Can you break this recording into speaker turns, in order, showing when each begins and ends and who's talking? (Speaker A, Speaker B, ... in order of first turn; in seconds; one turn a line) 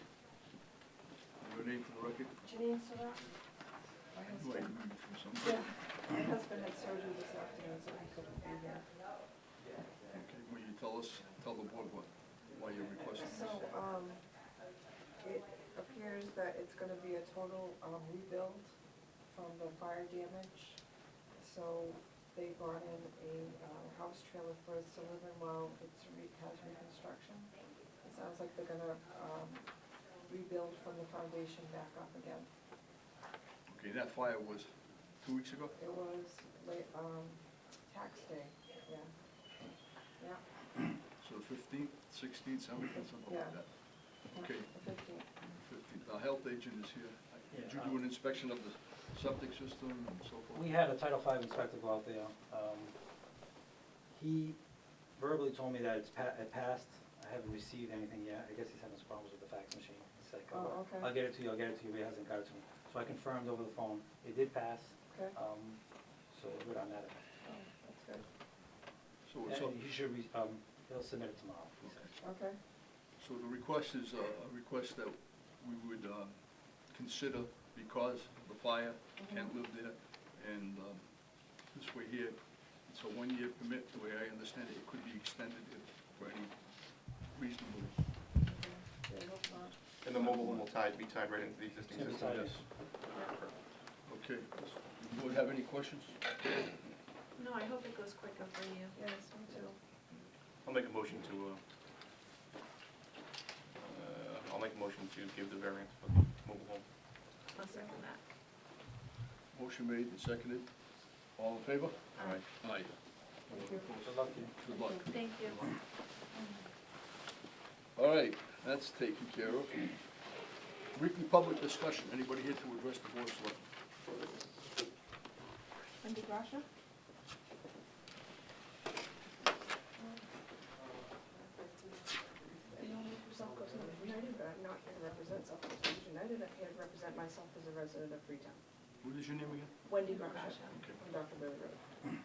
Speaker A: 1.4-2.4
Speaker B: 2.4-3.4
Speaker B: 4.1-4.8
Speaker A: 4.2-5.7
Speaker B: 5.4-9.0
Speaker C: 9.6-10.1
Speaker A: 10.1-13.7
Speaker B: 13.2-14.4
Speaker B: 15.2-18.7
Speaker B: 19.3-32.5
Speaker A: 33.7-35.8
Speaker B: 35.8-39.6
Speaker B: 40.1-40.5
Speaker A: 41.2-44.7
Speaker B: 43.2-45.3
Speaker A: 45.5-50.7
Speaker C: 47.5-48.1
Speaker C: 50.5-53.0
Speaker C: 54.1-67.2
Speaker B: 60.5-61.1
Speaker B: 65.1-65.4
Speaker B: 67.4-68.3
Speaker A: 69.2-69.8
Speaker C: 69.5-72.1
Speaker A: 71.8-72.1
Speaker B: 72.2-72.6
Speaker A: 73.2-88.1
Speaker B: 79.2-79.5
Speaker B: 88.4-89.8
Speaker D: 90.0-92.4
Speaker A: 90.2-90.6
Speaker C: 91.9-92.7
Speaker A: 92.0-92.6
Speaker D: 93.1-93.5
Speaker A: 94.0-96.2
Speaker E: 97.3-99.0
Speaker B: 99.0-99.8
Speaker D: 100.7-101.6
Speaker D: 103.8-106.8
Speaker E: 107.5-108.2
Speaker B: 107.6-107.9
Speaker A: 109.5-115.7
Speaker E: 112.2-112.5
Speaker B: 113.5-113.9
Speaker C: 114.0-114.7
Speaker E: 115.1-115.6
Speaker B: 116.3-116.7
Speaker A: 118.0-120.0
Speaker A: 120.9-123.7
Speaker B: 126.0-126.7
Speaker B: 130.0-130.3
Speaker B: 131.2-138.6
Speaker A: 139.0-139.8
Speaker B: 139.8-141.8
Speaker E: 140.0-140.8
Speaker A: 140.7-141.0